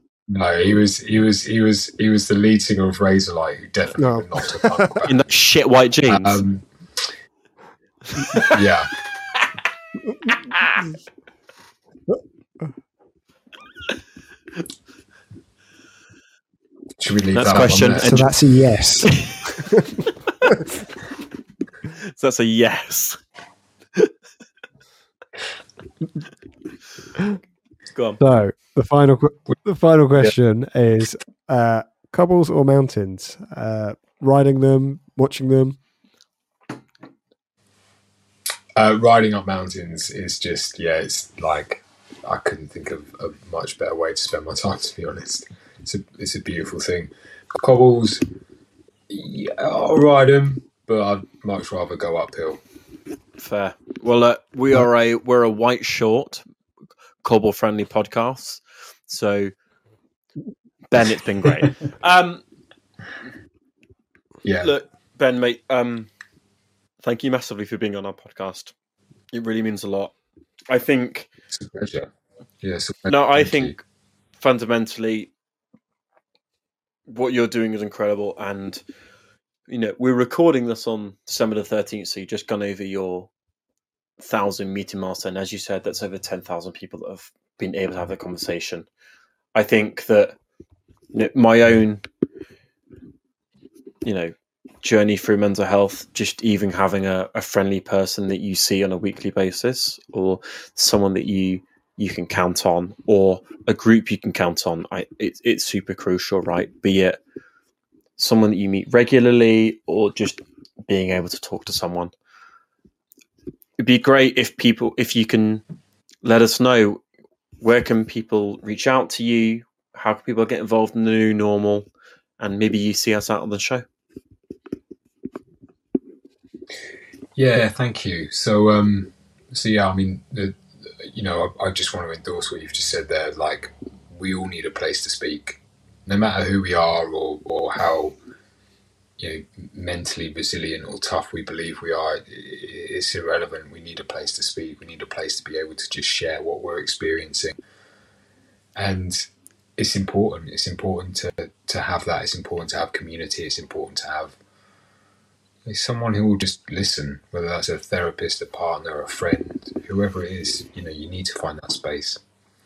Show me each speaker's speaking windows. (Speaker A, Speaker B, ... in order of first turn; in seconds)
Speaker A: 0.3-5.2, 6.1-7.1, 8.5-8.9, 17.0-18.2, 38.8-48.2, 49.1-52.6, 64.4-64.7, 71.5-72.1, 72.6-73.8, 127.4-138.2, 139.2-147.6, 148.8-149.3, 149.8-154.4, 155.7-162.2
Speaker B: 4.0-5.0, 18.0-20.5, 28.2-35.8
Speaker C: 5.1-6.4, 10.3-10.8, 17.3-18.3, 19.1-19.4, 21.9-23.2, 27.9-28.2, 53.4-56.4, 57.2-59.5, 60.9-62.4, 64.6-66.1, 67.0-68.8, 69.3-70.2, 70.7-71.3, 73.1-73.8, 74.4-75.3, 77.1-78.8, 79.7-83.3, 84.2-88.9, 89.5-90.4, 91.1-92.0, 94.0-107.2, 108.2-112.1, 113.8-115.6, 116.2-117.0, 117.6-121.9, 122.4-123.8